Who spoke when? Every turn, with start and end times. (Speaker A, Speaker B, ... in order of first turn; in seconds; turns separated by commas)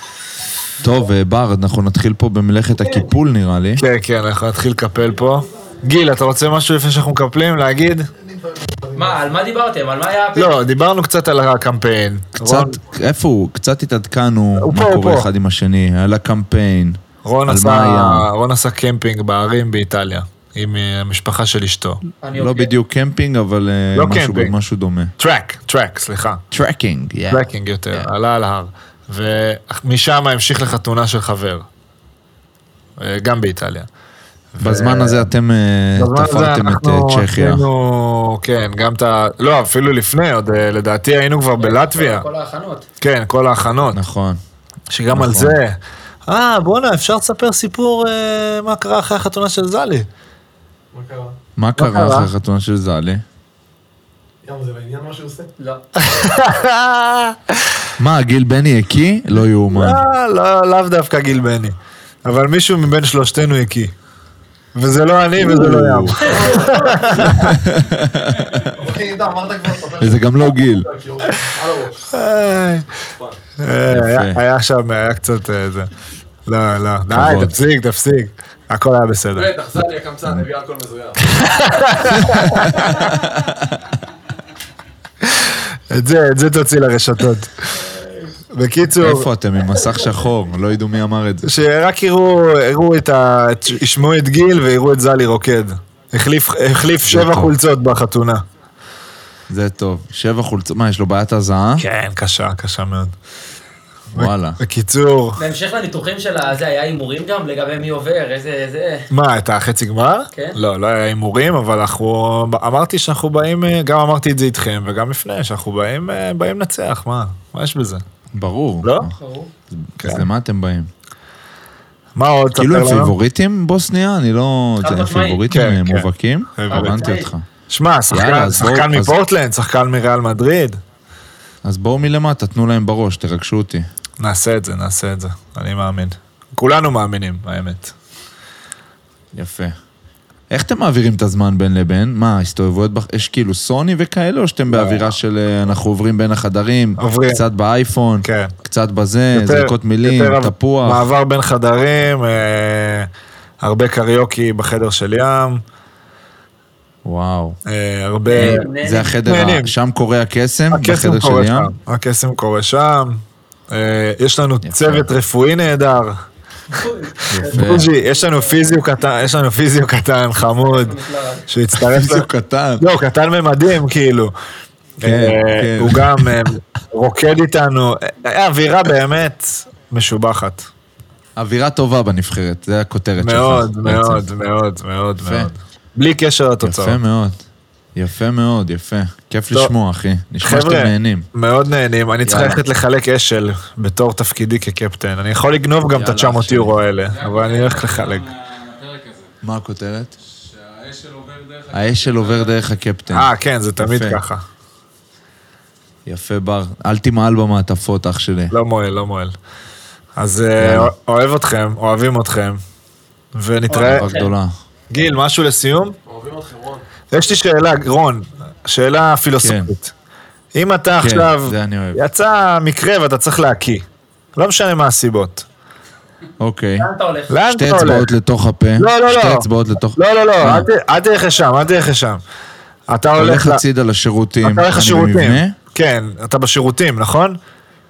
Speaker A: 0.8-3.8, Speaker B: 3.8-8.1, Speaker C: 8.2-9.3, Speaker D: 8.9-10.6, Speaker B: 10.3-12.8, Speaker A: 12.4-18.3, Speaker B: 14.6-15.3, Speaker B: 17.2-22.0, Speaker D: 22.2-22.7, Speaker A: 22.4-25.1, Speaker B: 23.9-24.6, Speaker B: 25.2-26.4, Speaker A: 26.5-28.1, Speaker B: 27.3-31.7, Speaker B: 33.0-33.9, Speaker B: 34.5-35.3, Speaker A: 34.6-37.6, Speaker B: 36.0-42.3, Speaker D: 41.6-42.9, Speaker B: 43.0-44.0, Speaker A: 43.9-44.4, Speaker B: 44.9-50.1, Speaker A: 45.1-45.6, Speaker C: 50.9-51.4, Speaker A: 51.6-53.2, Speaker B: 51.8-52.3, Speaker C: 54.4-55.5, Speaker B: 56.0-57.8, Speaker A: 58.0-60.0, Speaker B: 59.7-63.9, Speaker B: 64.8-67.5, Speaker A: 65.4-66.4, Speaker C: 66.3-67.2, Speaker A: 67.2-68.8, Speaker C: 68.7-72.1, Speaker A: 70.0-70.9, Speaker B: 72.1-73.0, Speaker C: 73.1-73.4, Speaker B: 73.6-75.9, Speaker A: 73.9-74.4, Speaker B: 76.5-79.5, Speaker A: 77.1-77.6, Speaker C: 79.3-82.8, Speaker B: 81.3-82.9, Speaker A: 82.1-83.9, Speaker B: 85.2-87.8, Speaker B: 88.5-89.3, Speaker A: 89.0-91.5, Speaker B: 91.4-98.4, Speaker A: 97.1-97.5, Speaker A: 99.5-101.8, Speaker B: 101.8-103.1, Speaker A: 104.1-104.6, Speaker B: 104.2-105.4, Speaker D: 105.4-109.1, Speaker B: 109.1-118.0, Speaker D: 110.3-110.6, Speaker A: 118.3-119.1, Speaker B: 118.8-119.1, Speaker D: 119.2-119.5, Speaker A: 119.7-120.9, Speaker B: 120.0-120.3, Speaker B: 122.2-123.2, Speaker A: 122.5-127.5, Speaker D: 124.8-125.5, Speaker B: 125.5-127.2, Speaker D: 126.7-127.3, Speaker B: 127.7-130.8, Speaker A: 128.1-129.2, Speaker A: 131.6-133.9, Speaker B: 134.2-137.9, Speaker A: 139.3-139.8, Speaker A: 140.5-151.1, Speaker B: 144.7-145.2, Speaker B: 147.0-147.4, Speaker B: 148.2-148.5, Speaker B: 149.3-153.1, Speaker B: 153.6-155.6, Speaker A: 157.1-157.6, Speaker B: 157.7-159.7, Speaker D: 158.3-159.1, Speaker A: 158.4-161.7, Speaker B: 160.7-166.2, Speaker A: 164.6-165.1, Speaker D: 166.7-168.9, Speaker A: 167.3-167.9, Speaker B: 167.4-174.3, Speaker D: 170.4-171.5, Speaker A: 171.7-172.8, Speaker B: 175.0-180.7, Speaker A: 175.0-176.4, Speaker A: 181.4-184.2, Speaker B: 183.2-187.0, Speaker A: 185.2-185.5, Speaker A: 186.6-191.3, Speaker B: 190.4-198.3, Speaker A: 192.2-192.6, Speaker A: 195.9-196.8, Speaker E: 197.1-199.3, Speaker A: 199.4-200.2, Speaker E: 200.2-202.8, Speaker A: 201.7-204.2, Speaker B: 203.1-204.4, Speaker A: 206.1-208.6, Speaker B: 208.5-209.3, Speaker B: 210.2-212.6, Speaker A: 210.6-210.9, Speaker B: 213.3-214.1, Speaker A: 213.7-214.5, Speaker D: 213.7-214.3, Speaker B: 214.9-216.0, Speaker C: 216.1-216.9, Speaker B: 217.1-219.9, Speaker A: 219.4-219.7, Speaker B: 220.6-223.8, Speaker A: 221.0-222.0, Speaker B: 224.4-225.5, Speaker A: 226.4-226.9, Speaker D: 226.8-227.4, Speaker B: 227.3-228.1, Speaker A: 227.5-230.7, Speaker B: 228.8-232.2, Speaker B: 232.9-233.6, Speaker A: 233.2-235.6, Speaker B: 234.4-237.4